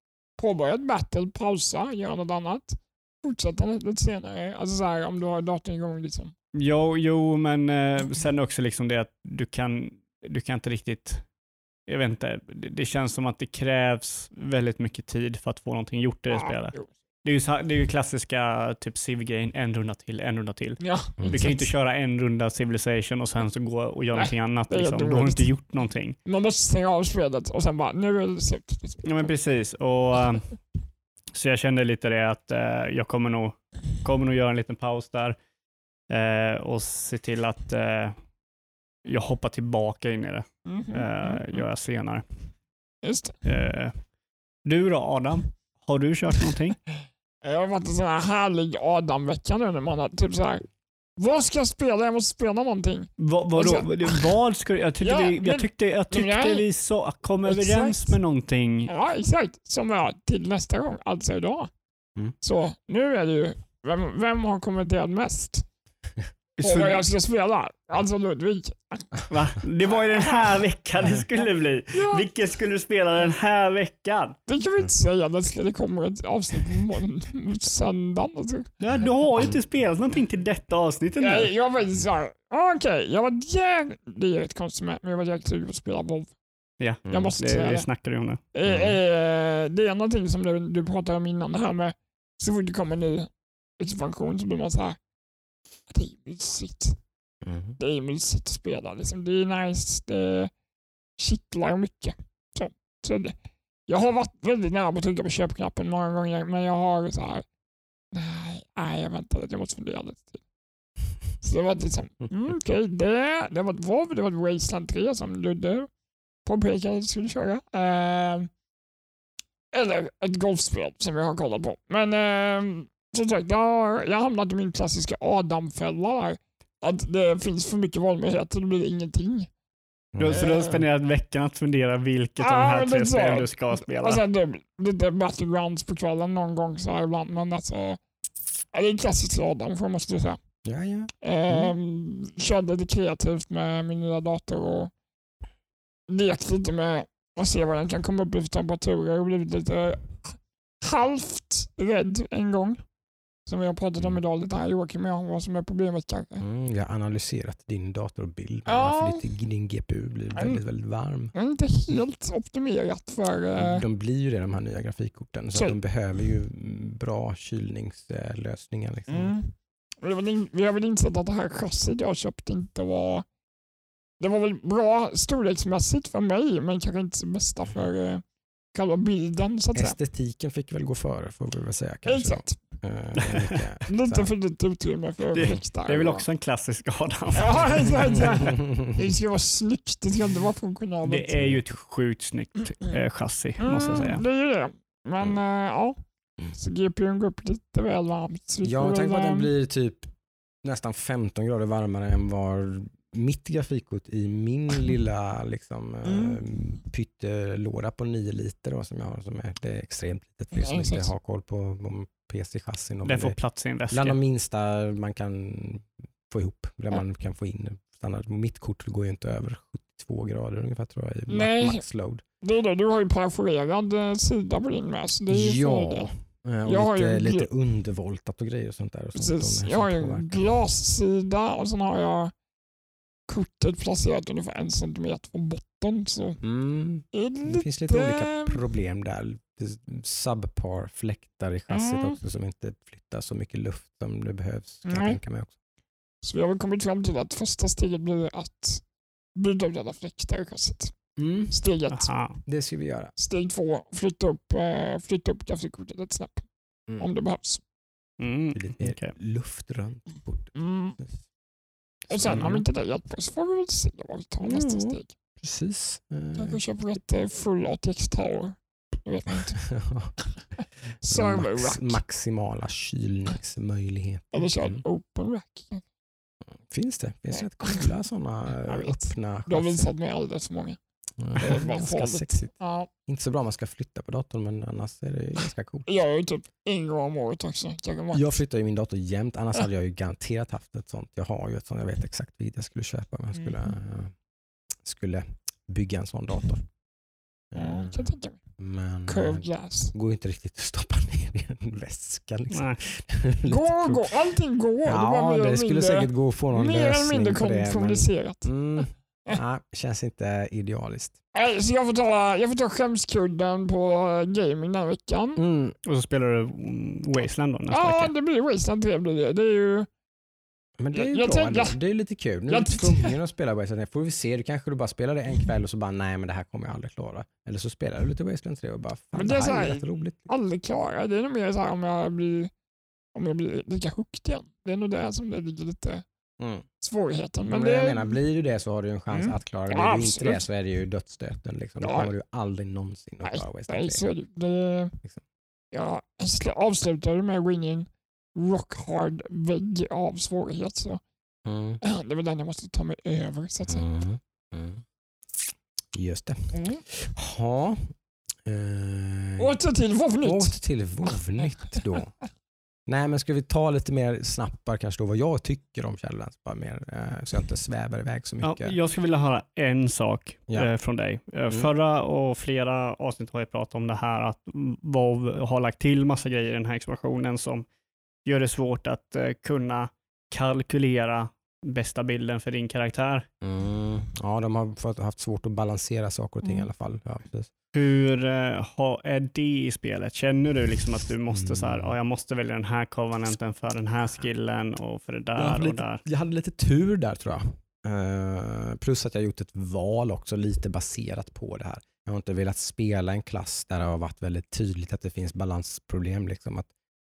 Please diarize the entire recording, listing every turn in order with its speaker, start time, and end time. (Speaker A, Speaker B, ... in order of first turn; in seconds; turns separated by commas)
Speaker A: 0.4-6.3, Speaker B: 6.5-11.3, Speaker B: 11.9-26.2, Speaker A: 16.3-16.9, Speaker A: 20.8-21.7, Speaker A: 24.2-25.5, Speaker A: 26.3-29.3, Speaker B: 29.0-30.6, Speaker B: 31.3-35.4, Speaker B: 36.1-38.2, Speaker B: 39.0-42.3, Speaker A: 40.7-41.6, Speaker A: 43.0-43.4, Speaker B: 43.4-44.0, Speaker B: 44.6-46.8, Speaker A: 47.4-50.6, Speaker A: 51.2-54.3, Speaker B: 53.2-58.9, Speaker A: 55.0-56.6, Speaker A: 57.5-58.1, Speaker A: 58.9-61.7, Speaker A: 62.4-65.7, Speaker B: 66.6-67.0, Speaker A: 66.6-69.1, Speaker B: 69.3-74.4, Speaker A: 71.9-72.3, Speaker A: 74.5-78.7, Speaker B: 78.8-81.5, Speaker A: 81.2-86.3, Speaker B: 86.8-88.4, Speaker C: 87.1-87.3, Speaker A: 87.1-87.9, Speaker A: 88.5-95.0, Speaker C: 88.7-89.0, Speaker A: 95.9-97.0, Speaker C: 97.4-97.8, Speaker A: 97.8-100.5, Speaker A: 101.2-103.4, Speaker A: 103.9-107.5, Speaker A: 108.1-110.4, Speaker A: 111.4-115.9, Speaker A: 116.5-118.5, Speaker A: 119.7-129.5, Speaker C: 130.1-130.4, Speaker B: 130.2-134.2, Speaker A: 130.3-130.8, Speaker A: 132.4-138.0, Speaker A: 138.7-140.4, Speaker C: 140.7-141.7, Speaker A: 141.2-144.9, Speaker A: 146.1-152.8, Speaker A: 153.5-156.4, Speaker C: 156.4-161.3, Speaker A: 158.7-159.2, Speaker A: 160.4-160.6, Speaker A: 161.3-163.9, Speaker C: 163.6-169.3, Speaker A: 169.1-173.3, Speaker A: 174.2-180.0, Speaker C: 179.8-184.3, Speaker A: 182.1-182.6, Speaker B: 183.2-183.6, Speaker A: 183.9-186.2, Speaker B: 185.3-188.1, Speaker A: 187.4-191.4, Speaker C: 188.4-188.9, Speaker B: 191.0-194.2, Speaker A: 193.6-196.0, Speaker A: 196.5-199.5, Speaker C: 198.6-200.1, Speaker C: 200.6-213.4, Speaker A: 210.6-211.1, Speaker B: 213.1-214.2, Speaker C: 213.9-222.2, Speaker A: 221.3-221.8, Speaker A: 222.4-226.1, Speaker C: 225.3-230.3, Speaker A: 226.7-227.5, Speaker A: 229.2-232.3, Speaker A: 233.3-236.4, Speaker C: 236.4-245.5, Speaker A: 237.1-238.6, Speaker A: 241.7-242.2, Speaker A: 244.9-245.2, Speaker A: 246.2-248.8, Speaker A: 249.4-250.9, Speaker C: 251.2-251.6, Speaker A: 251.5-252.1, Speaker B: 251.9-252.4, Speaker C: 252.5-253.1, Speaker A: 253.2-257.6, Speaker B: 258.2-259.1, Speaker C: 258.5-260.5, Speaker A: 260.5-261.0, Speaker A: 262.1-265.1, Speaker C: 262.2-262.6, Speaker C: 264.4-266.6, Speaker A: 266.4-269.7, Speaker C: 269.7-270.1, Speaker A: 270.6-272.0, Speaker C: 271.1-274.8, Speaker A: 274.3-275.8, Speaker C: 276.5-279.9, Speaker A: 277.4-277.8, Speaker A: 278.7-280.8, Speaker C: 281.2-282.5, Speaker A: 281.4-282.9, Speaker C: 283.1-285.9, Speaker A: 285.9-288.4, Speaker C: 288.1-294.1, Speaker C: 294.8-296.7, Speaker C: 297.5-298.1, Speaker A: 297.6-298.4, Speaker C: 298.6-304.1, Speaker A: 299.1-299.9, Speaker B: 302.5-302.8, Speaker A: 303.5-309.4, Speaker C: 304.9-311.2, Speaker A: 311.3-315.4, Speaker C: 315.4-315.8, Speaker B: 315.9-318.1, Speaker A: 317.7-319.9, Speaker C: 320.8-330.2, Speaker A: 320.9-321.8, Speaker A: 322.5-323.1, Speaker A: 329.1-332.5, Speaker A: 333.1-336.1, Speaker C: 336.4-336.7, Speaker A: 336.8-338.1, Speaker C: 337.5-344.0, Speaker A: 339.1-340.4, Speaker A: 341.8-342.1, Speaker A: 343.2-345.0, Speaker A: 345.7-351.0, Speaker C: 351.4-351.8, Speaker A: 351.8-353.9, Speaker C: 353.7-354.8, Speaker C: 355.9-357.9, Speaker A: 356.5-356.8, Speaker C: 358.5-359.6, Speaker A: 359.4-360.5, Speaker C: 360.2-362.1, Speaker C: 362.9-368.8, Speaker B: 368.4-377.7, Speaker B: 378.2-383.3, Speaker C: 383.4-387.5, Speaker B: 387.7-396.0, Speaker C: 391.3-392.0, Speaker C: 395.4-406.7